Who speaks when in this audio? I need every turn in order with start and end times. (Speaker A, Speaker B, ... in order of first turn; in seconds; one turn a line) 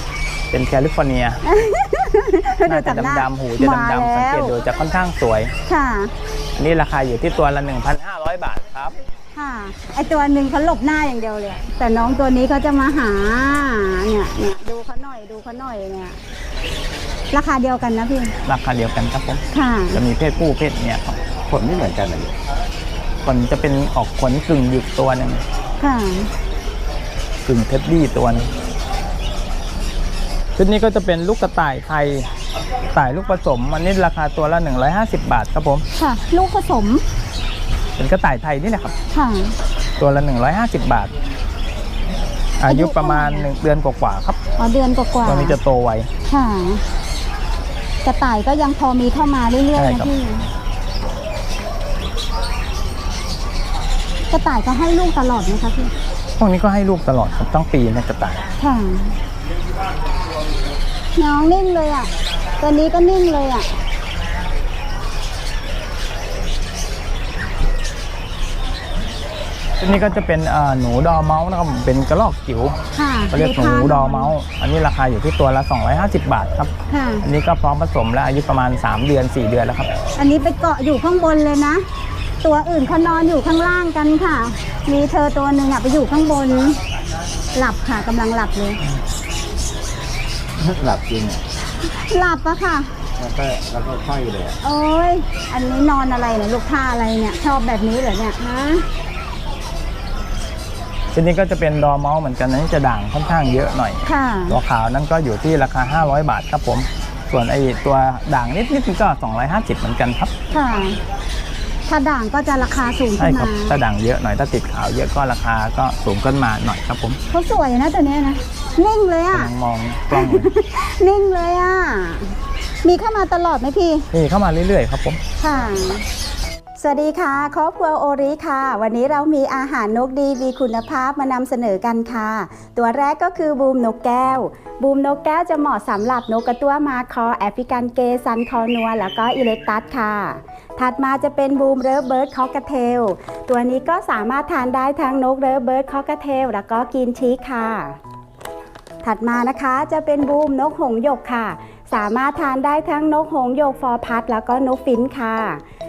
Speaker A: 0.5-1.4
Speaker B: 1.4-4.6
Speaker A: 2.6-5.5
Speaker B: 5.7-6.1
Speaker A: 6.6-9.0
Speaker B: 9.3-16.2
Speaker B: 17.3-18.4
Speaker A: 18.4-21.3
Speaker B: 19.5-20.0
Speaker C: 21.5-22.4
Speaker A: 23.2-25.4
Speaker B: 25.8-26.3
Speaker A: 27.5-28.5
Speaker A: 30.6-32.3
Speaker A: 32.9-35.9
Speaker B: 36.0-37.0
Speaker A: 38.0-38.9
Speaker B: 39.1-39.6
Speaker A: 40.0-41.1
Speaker A: 42.6-44.4
Speaker B: 42.6-43.5
Speaker B: 44.6-45.6
Speaker A: 45.2-46.1
Speaker B: 46.3-46.8
Speaker B: 48.0-50.5
Speaker A: 49.8-50.1
Speaker B: 54.3-55.9
Speaker A: 56.4-58.5
Speaker B: 58.6-59.2
Speaker B: 61.2-63.8
Speaker A: 69.8-72.8
Speaker B: 72.9-74.3
Speaker A: 73.3-79.9
Speaker B: 76.9-77.2
Speaker B: 80.2-81.9
Speaker B: 82.4-86.8
Speaker B: 87.5-88.8
Speaker C: 90.6-91.4
Speaker B: 91.9-92.9
Speaker C: 93.2-94.6
Speaker B: 94.6-98.9
Speaker A: 101.1-110.3
Speaker B: 104.0-104.6
Speaker B: 110.5-111.0
Speaker B: 111.9-113.7
Speaker A: 113.2-117.2
Speaker B: 117.3-119.5
Speaker A: 119.3-120.5
Speaker B: 120.1-124.1
Speaker A: 124.1-125.2
Speaker B: 125.4-126.1
Speaker B: 126.8-148.0
Speaker B: 149.0-155.6